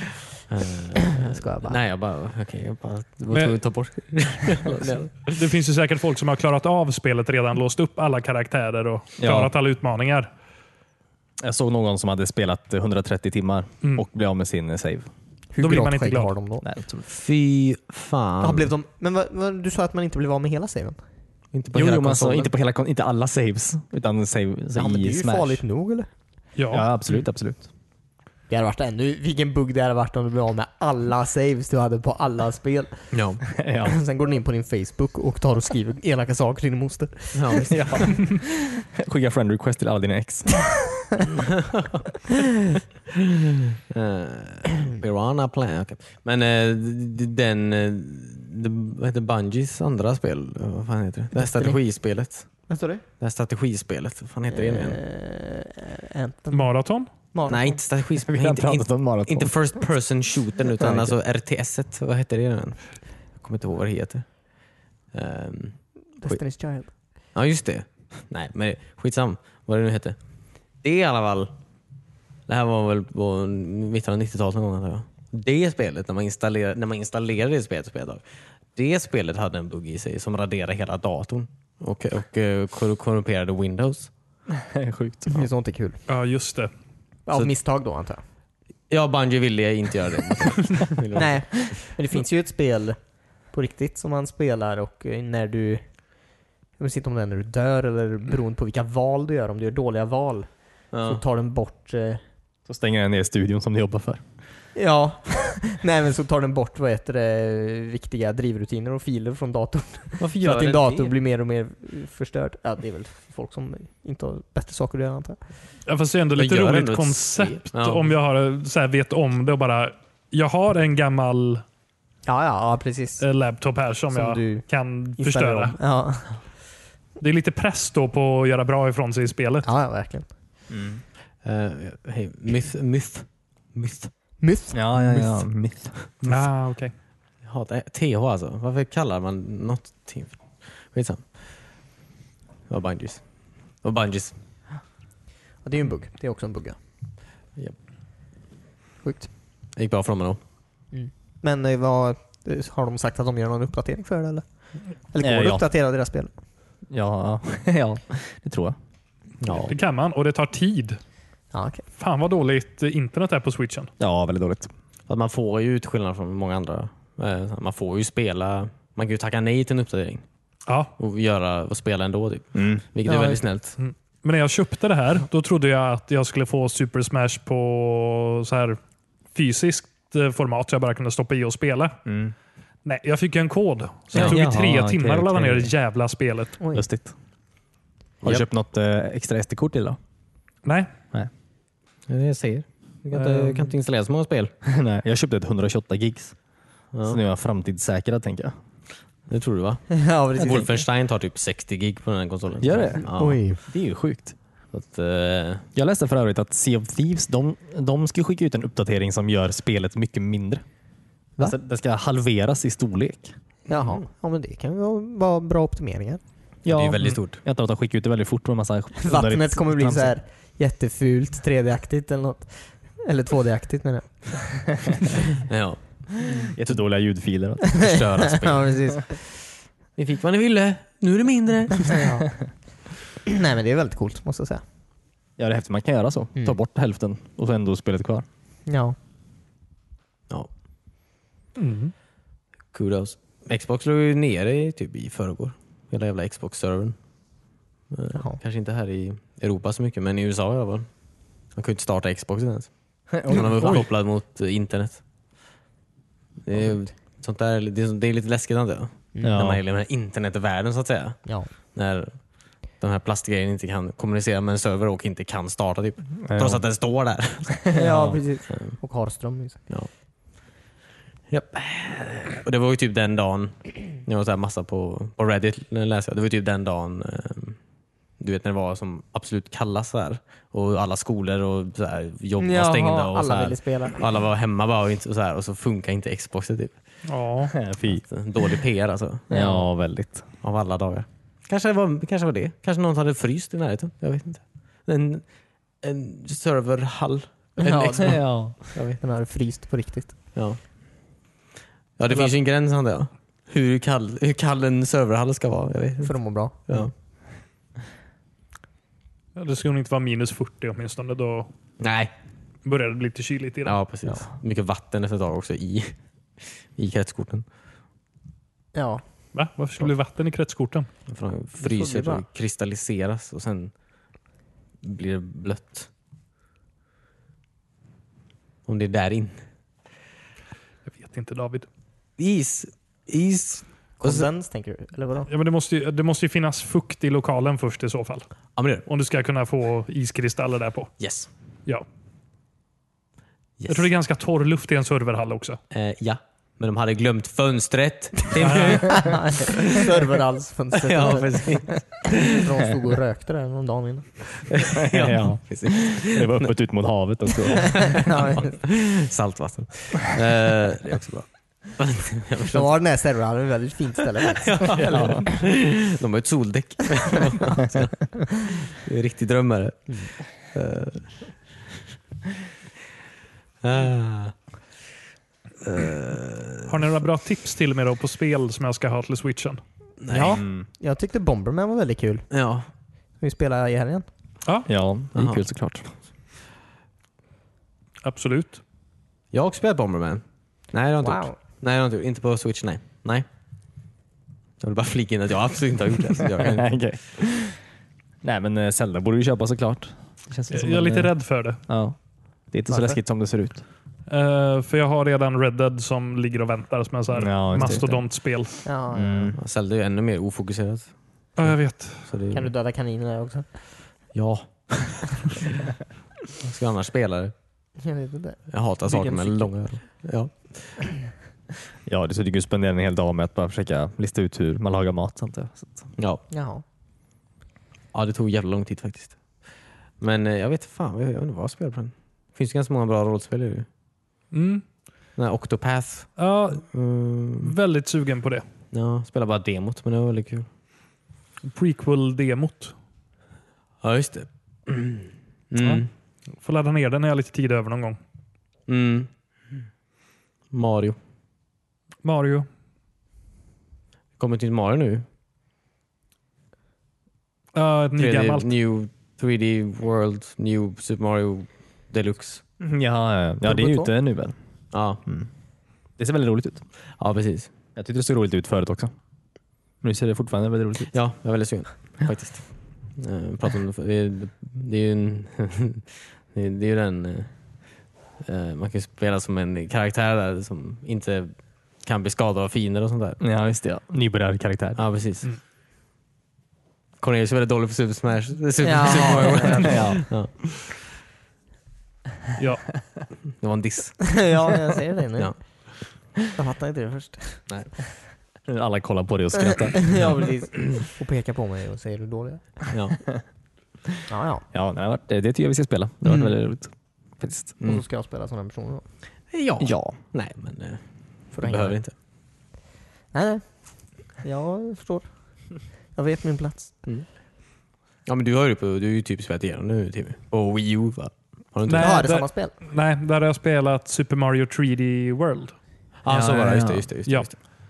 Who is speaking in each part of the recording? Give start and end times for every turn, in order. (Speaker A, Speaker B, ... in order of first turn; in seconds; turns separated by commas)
Speaker A: 0.5-5.3, Speaker B: 1.1-1.8, Speaker C: 3.3-3.6, Speaker C: 5.3-10.3, Speaker D: 9.2-9.5, Speaker D: 11.4-15.1, Speaker C: 13.8-14.1, Speaker B: 15.5-16.6, Speaker C: 15.6-16.3, Speaker D: 16.6-17.1, Speaker A: 17.1-18.7, Speaker B: 18.4-21.0, Speaker A: 21.5-22.5, Speaker D: 21.7-25.6, Speaker B: 24.7-26.1, Speaker C: 26.6-26.9, Speaker D: 26.7-27.7, Speaker B: 28.5-33.1, Speaker A: 33.1-33.4, Speaker D: 33.6-34.0, Speaker B: 33.9-37.7, Speaker A: 37.4-37.8, Speaker D: 37.7-40.8, Speaker A: 41.6-42.0, Speaker A: 43.7-52.7, Speaker B: 51.4-51.8, Speaker B: 52.7-53.0, Speaker A: 53.2-55.0, Speaker B: 54.5-56.7, Speaker C: 56.5-57.1, Speaker B: 57.3-57.8, Speaker A: 57.5-62.8, Speaker D: 58.2-59.5, Speaker A: 63.4-64.5, Speaker A: 65.1-66.4, Speaker B: 66.2-66.9, Speaker A: 67.3-70.2, Speaker A: 70.8-71.5, Speaker A: 72.5-78.2, Speaker A: 78.8-84.1, Speaker D: 84.5-85.5, Speaker B: 85.3-86.0, Speaker C: 86.1-86.7, Speaker B: 87.3-88.2, Speaker A: 88.9-91.8, Speaker B: 91.2-93.0, Speaker B: 93.5-95.8, Speaker B: 96.8-100.5, Speaker A: 100.9-101.2, Speaker B: 101.0-102.2, Speaker D: 102.7-104.2, Speaker B: 104.8-115.4, Speaker A: 110.2-111.1, Speaker C: 115.9-121.6, Speaker A: 116.4-118.1, Speaker B: 122.3-123.2, Speaker C: 123.2-125.8, Speaker B: 124.1-126.4, Speaker C: 127.2-129.7, Speaker B: 129.6-130.3, Speaker D: 130.7-131.0, Speaker A: 131.4-134.1, Speaker B: 134.4-135.4, Speaker D: 134.7-136.1, Speaker C: 136.2-136.9, Speaker A: 137.4-141.3, Speaker A: 142.7-143.2, Speaker A: 143.8-144.3, Speaker B: 145.6-146.8, Speaker B: 149.0-149.3, Speaker A: 149.8-150.4, Speaker B: 150.9-156.3, Speaker D: 155.2-155.7, Speaker D: 156.9-158.8, Speaker A: 159.4-159.8, Speaker C: 159.5-161.0, Speaker B: 161.5-161.8, Speaker C: 162.0-163.9, Speaker D: 164.0-164.7, Speaker A: 165.1-170.2, Speaker A: 171.0-173.8, Speaker D: 172.5-172.8, Speaker C: 173.1-178.8, Speaker C: 179.3-182.0, Speaker D: 182.1-182.3, Speaker C: 182.8-186.6, Speaker A: 184.1-184.4, Speaker D: 184.1-185.7, Speaker B: 186.6-186.8, Speaker D: 186.7-187.1, Speaker D: 188.2-190.0, Speaker C: 190.7-190.9, Speaker A: 192.1-194.5, Speaker C: 193.1-193.7, Speaker D: 194.7-196.4, Speaker A: 196.9-197.2, Speaker D: 197.1-198.6, Speaker A: 199.3-203.4, Speaker B: 199.9-200.8, Speaker D: 202.6-204.3, Speaker B: 203.2-203.6, Speaker A: 204.7-205.7, Speaker D: 205.8-210.6, Speaker D: 211.4-213.3, Speaker B: 213.7-216.2, Speaker D: 216.7-220.1, Speaker A: 216.7-217.4, Speaker B: 219.0-225.0, Speaker A: 225.5-226.7, Speaker D: 226.6-228.0, Speaker B: 227.7-229.2, Speaker A: 227.8-229.0, Speaker A: 230.0-232.1, Speaker B: 231.9-232.5, Speaker B: 233.3-234.6, Speaker D: 235.4-238.3, Speaker B: 238.7-239.0, Speaker C: 241.6-241.9, Speaker A: 242.7-247.0, Speaker A: 247.9-250.9, Speaker A: 251.5-255.0, Speaker D: 253.2-253.8, Speaker A: 256.4-262.2, Speaker B: 259.1-259.4, Speaker D: 259.2-259.6, Speaker A: 262.8-267.8, Speaker D: 266.2-266.6, Speaker D: 267.7-268.2, Speaker B: 267.7-269.7, Speaker A: 268.5-268.8, Speaker A: 271.3-277.6, Speaker A: 278.2-286.8, Speaker B: 282.4-284.0, Speaker C: 287.1-287.6, Speaker D: 287.6-288.0, Speaker A: 287.9-289.2, Speaker B: 289.3-289.6, Speaker D: 289.3-290.3, Speaker A: 290.4-295.2, Speaker A: 295.8-298.2, Speaker B: 297.6-300.2, Speaker D: 298.0-298.6, Speaker A: 298.7-299.0, Speaker A: 300.4-300.6, Speaker A: 302.0-306.2, Speaker B: 306.0-306.6, Speaker A: 306.7-306.9, Speaker C: 309.4-311.5, Speaker A: 311.8-312.1, Speaker C: 312.6-313.8, Speaker A: 313.7-317.4, Speaker B: 318.7-319.0, Speaker C: 319.3-320.9, Speaker A: 321.1-323.7, Speaker B: 321.6-322.2, Speaker A: 324.8-325.9, Speaker A: 328.7-329.4, Speaker C: 330.9-331.7, Speaker A: 332.2-334.3, Speaker B: 334.0-335.3, Speaker C: 335.3-338.3, Speaker A: 338.6-338.9, Speaker C: 338.9-340.9, Speaker A: 341.0-341.3, Speaker A: 343.6-343.9, Speaker C: 343.7-345.6, Speaker A: 345.7-350.0, Speaker C: 348.4-349.0, Speaker B: 348.8-354.1, Speaker A: 350.8-352.4, Speaker A: 354.5-356.5, Speaker D: 354.8-358.0, Speaker A: 357.7-362.7, Speaker B: 358.1-358.6, Speaker B: 362.5-365.0, Speaker A: 364.4-371.2, Speaker D: 364.9-365.2, Speaker A: 373.6-374.3, Speaker A: 375.6-376.7, Speaker C: 376.7-379.6, Speaker A: 380.0-380.4, Speaker B: 380.1-382.3, Speaker D: 380.4-380.7, Speaker A: 382.3-382.7, Speaker B: 383.2-384.1, Speaker D: 384.7-385.9, Speaker A: 385.1-385.4, Speaker C: 388.0-388.6, Speaker A: 389.3-393.2, Speaker B: 391.0-391.4, Speaker A: 394.6-396.7, Speaker D: 396.4-397.6, Speaker D: 398.2-403.6, Speaker C: 400.5-401.6, Speaker B: 402.7-403.0, Speaker C: 404.1-408.5, Speaker D: 407.1-408.1, Speaker B: 408.6-409.4, Speaker D: 408.9-409.4, Speaker A: 409.4-410.9, Speaker C: 411.4-412.1, Speaker A: 411.9-412.5, Speaker B: 412.3-413.5, Speaker A: 414.1-415.1, Speaker A: 416.4-417.3, Speaker B: 417.8-419.5, Speaker A: 418.5-420.8, Speaker D: 421.9-425.9, Speaker A: 426.0-426.2, Speaker B: 426.3-426.6, Speaker A: 427.9-429.5, Speaker A: 430.0-433.7, Speaker C: 434.3-434.6, Speaker A: 435.2-437.5, Speaker C: 436.2-436.7, Speaker C: 437.4-438.4, Speaker A: 438.7-440.5, Speaker C: 441.4-442.8, Speaker A: 443.8-445.9, Speaker C: 445.6-445.9, Speaker C: 446.4-448.0, Speaker A: 448.7-449.1, Speaker A: 450.5-451.0, Speaker C: 452.0-452.5, Speaker A: 454.2-455.1, Speaker C: 457.6-458.5, Speaker A: 458.0-462.4, Speaker D: 462.6-464.3, Speaker B: 463.4-463.9, Speaker A: 464.7-465.0, Speaker D: 465.1-465.3, Speaker D: 466.0-466.6, Speaker A: 467.0-467.5, Speaker D: 467.8-468.9, Speaker D: 469.8-470.9, Speaker A: 470.9-477.6, Speaker A: 478.2-483.2, Speaker D: 483.2-484.8, Speaker A: 484.8-485.3, Speaker A: 487.0-490.5, Speaker B: 488.6-489.9, Speaker D: 489.6-490.0, Speaker C: 492.4-492.7, Speaker A: 493.4-494.2, Speaker B: 494.1-495.5, Speaker B: 496.2-497.5, Speaker D: 498.5-500.2, Speaker B: 499.8-502.7, Speaker A: 502.7-503.0, Speaker B: 504.1-504.4, Speaker D: 504.5-507.6, Speaker B: 506.1-506.3, Speaker B: 507.6-508.8, Speaker A: 509.3-511.9, Speaker D: 509.6-510.0, Speaker B: 511.3-511.8, Speaker B: 513.1-517.0, Speaker A: 518.1-522.1, Speaker C: 521.7-525.5, Speaker B: 521.7-522.5, Speaker A: 526.0-527.4, Speaker D: 526.1-526.9